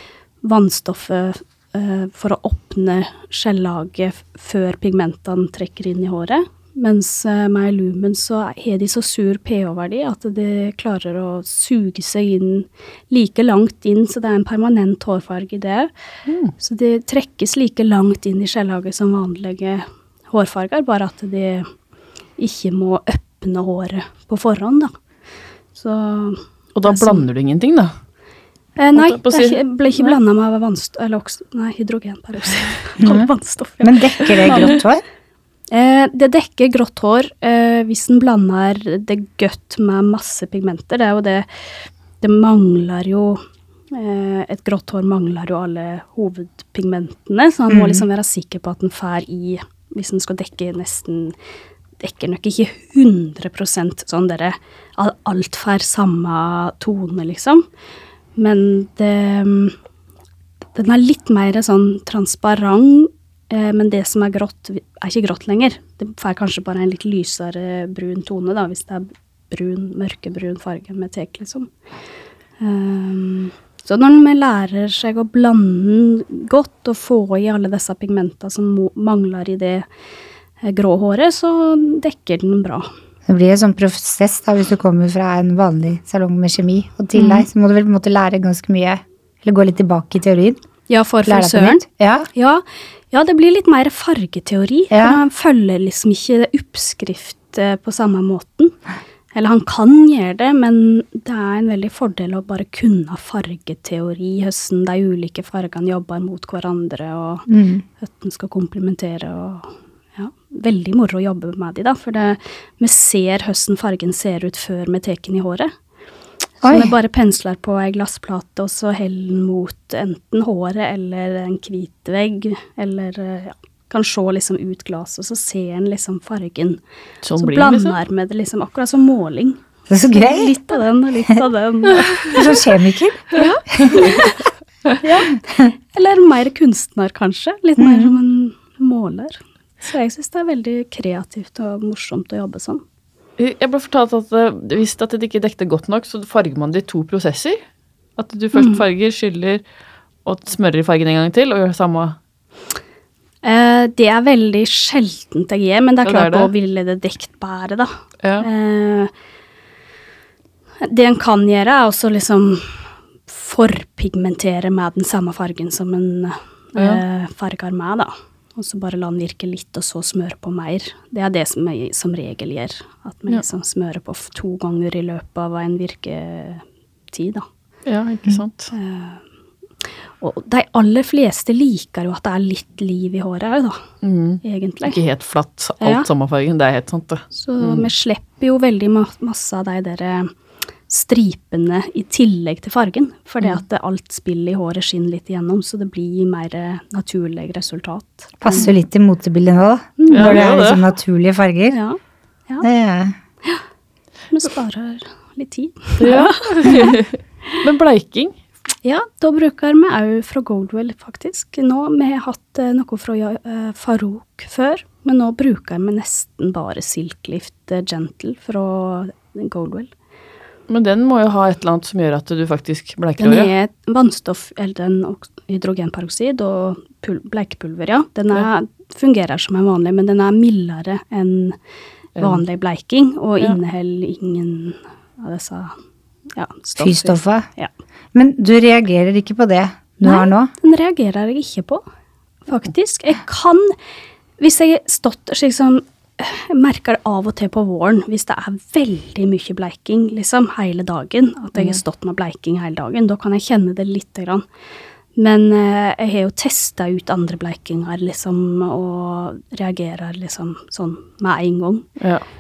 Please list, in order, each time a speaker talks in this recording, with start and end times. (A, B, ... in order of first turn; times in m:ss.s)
0:00.4-0:15.9 A
0:16.3-0:16.5 B
0:16.6-0:21.7 A
0:22.4-0:24.9 A
0:25.8-0:27.2 A
0:26.8-0:27.9 B
0:28.8-0:34.8 A
0:29.0-0:30.2 B
0:33.0-0:33.3 C
0:33.8-0:35.0 C
0:35.7-0:43.4 A
0:43.9-0:51.4 A
0:47.7-0:48.0 C
0:52.0-0:57.6 A
0:58.4-0:59.8 A
1:00.8-1:11.7 A
1:12.6-1:19.8 A
1:20.6-1:22.9 A
1:23.3-1:30.6 C
1:30.9-1:38.8 A
1:31.2-1:32.3 C
1:34.9-1:35.2 C
1:39.3-1:55.7 A
1:47.5-1:47.8 C
1:56.6-1:56.9 C
1:56.6-2:06.8 A
2:07.2-2:08.0 B
2:07.4-2:12.5 A
2:09.9-2:10.5 C
2:12.3-2:14.0 C
2:13.3-2:14.5 A
2:15.0-2:22.8 A
2:17.8-2:18.1 C
2:23.4-2:27.6 B
2:28.2-2:29.6 B
2:28.6-2:28.8 A
2:30.2-2:32.2 B
2:33.4-2:39.1 A
2:36.0-2:36.5 B
2:40.8-2:57.5 A
2:46.8-2:47.0 B
2:57.9-2:58.7 B
2:58.7-2:59.2 A
3:00.2-3:03.8 A
3:04.0-3:07.9 B
3:04.4-3:05.0 A
3:05.8-3:06.1 A
3:07.3-3:10.3 A
3:10.9-3:18.7 A
3:18.4-3:21.8 C
3:20.0-3:20.5 A
3:20.1-3:20.8 B
3:21.7-3:22.7 A
3:22.6-3:23.1 C
3:24.3-3:27.0 A
3:26.0-3:28.4 B
3:28.8-3:39.9 A
3:40.7-3:43.5 B
3:43.2-3:51.6 A
3:52.2-3:55.8 A
3:56.3-3:57.7 A
3:56.8-3:57.5 C
3:58.1-4:00.5 C
4:00.0-4:01.8 A
4:02.5-4:03.8 A
4:04.4-4:14.5 A
4:15.2-4:21.9 A
4:22.0-4:22.2 B